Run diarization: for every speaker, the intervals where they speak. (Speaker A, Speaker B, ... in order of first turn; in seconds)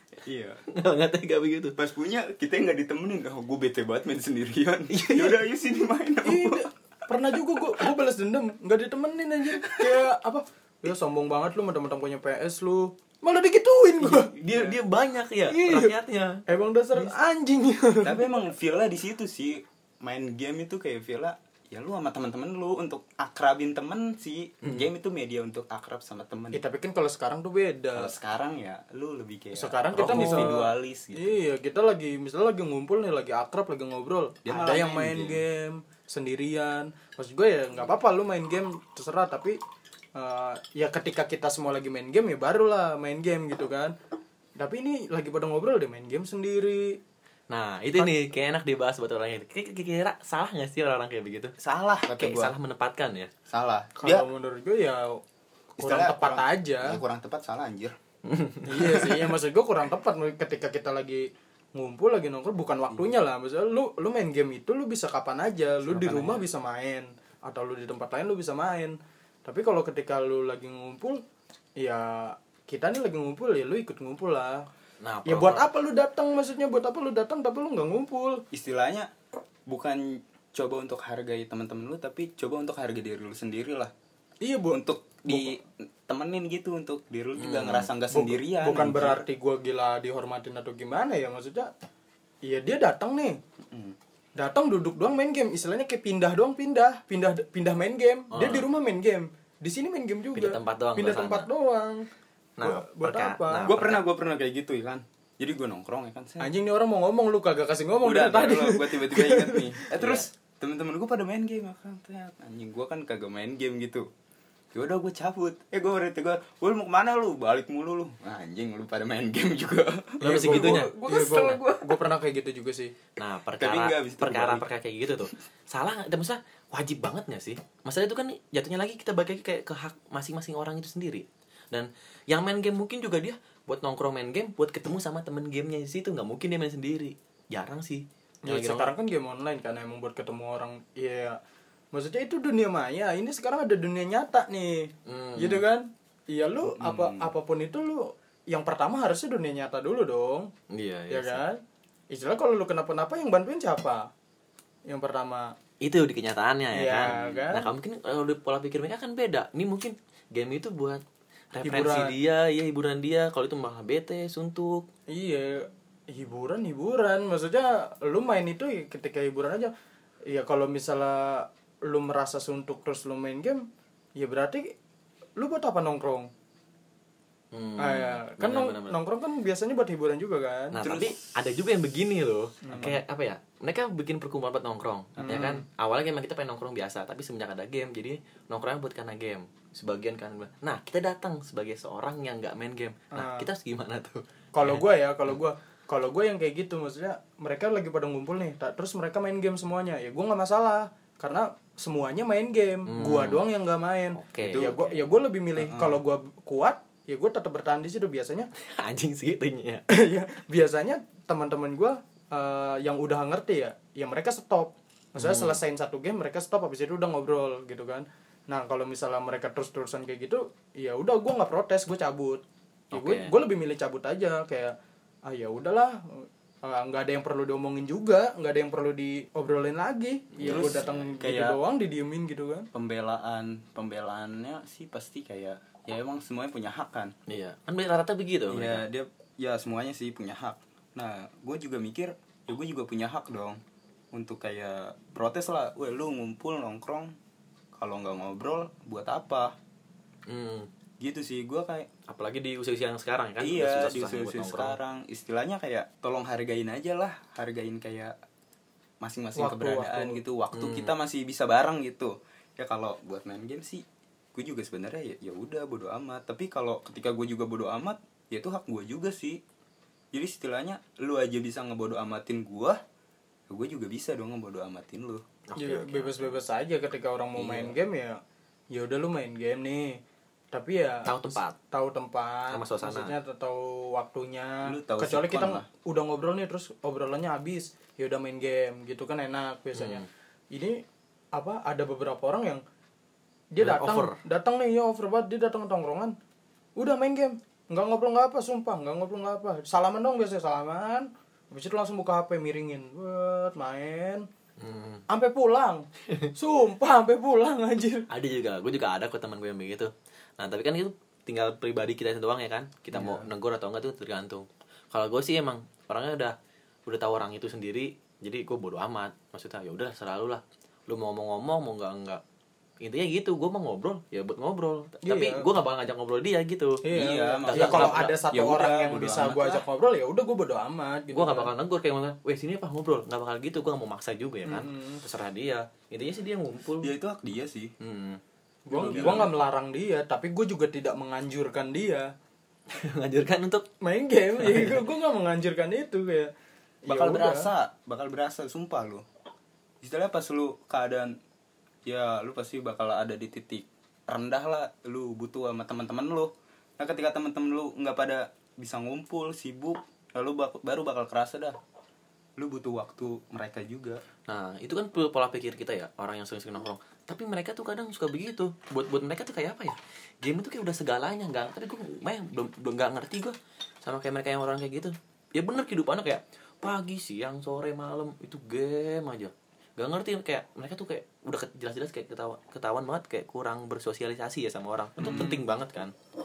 Speaker A: 0.2-0.6, 1.8-6.6, 9.6-10.0, 14.4-14.8, 18.0-26.6, 28.0-31.4, 34.4-35.4, 51.6-52.5, 53.5-54.2, 55.8-58.0, 78.5-79.1, 79.7-83.9, 84.7-89.2, 93.7-93.9, 103.6-106.5, 108.0-114.1, 114.7-122.0, 123.6-124.7, 146.7-147.3, 157.0-157.4, 180.8-181.2, 182.7-183.0, 204.4-205.0, 205.6-206.0, 230.4-231.6, 232.7-237.1, 238.5-243.6, 244.1-247.1, 247.7-249.5, 251.0-251.9, 253.4-258.1, 259.0-269.4, 270.1-272.8, 273.5-275.2, 277.4-277.8, 284.6-285.6, 312.9-313.2, 326.9-329.6, 336.8-337.7, 338.8-339.3, 346.9-349.0, 349.8-351.1, 351.9-361.6, 362.4-364.0, 385.0-385.4
Speaker B: 0.7-1.8, 4.9-5.4, 14.0-16.4, 24.6-24.9, 29.9-30.6, 47.5-53.3, 58.2-59.3, 65.9-66.4, 75.0-75.6, 87.4-87.9, 98.3-98.7, 100.3-101.5, 102.6-104.0, 110.0-110.2, 120.2-120.9, 123.2-138.9, 145.1-145.6, 150.7-151.4, 155.8-161.0, 161.5-164.8, 177.5-179.0, 180.7-194.8, 202.9-203.4, 204.2-204.7, 208.6-209.8, 215.2-215.6, 222.9-223.3, 230.3-231.1, 237.3-238.8, 250.3-250.7, 252.1-254.8, 260.5-260.9, 275.5-276.4, 281.1-281.5, 282.5-283.1, 289.7-290.1, 293.6-294.2, 304.6-305.0, 308.1-316.3, 316.9-322.2, 322.8-326.8, 327.5-328.1, 331.1-336.9, 337.8-338.2, 338.8-339.3, 342.7-343.7, 344.4-344.9, 364.3-385.9
Speaker C: 6.2-14.3, 15.5-15.9, 16.5-18.4, 26.5-28.1, 29.5-39.6, 40.2-43.9, 44.6-46.9, 54.0-55.2, 55.8-57.0, 58.6-71.2, 71.8-74.7, 75.2-78.4, 84.4-85.5, 88.1-91.7, 92.4-93.4, 94.4-102.0, 102.6-103.7, 106.4-109.8, 120.2-122.9, 138.4-141.4, 141.9-150.5, 151.1-154.1, 154.9-155.5, 156.7-157.7, 161.6-162.1, 165.1-169.7, 170.3-173.6, 174.2-174.7, 175.4-176.3, 177.8-180.8, 182.6-183.0, 185.2-185.6, 193.1-193.5, 194.5-208.5, 209.9-222.4, 222.9-224.7, 225.3-232.7, 259.4-260.2, 275.6-278.2, 278.7-280.0, 280.5-290.8, 291.4-292.6, 293.5-296.1, 296.8-304.2, 305.1-305.8, 306.3-308.0, 325.1-325.4, 326.8-331.5, 334.5-335.0, 338.7-342.1, 343.8-346.3, 346.8-347.5, 385.0-385.4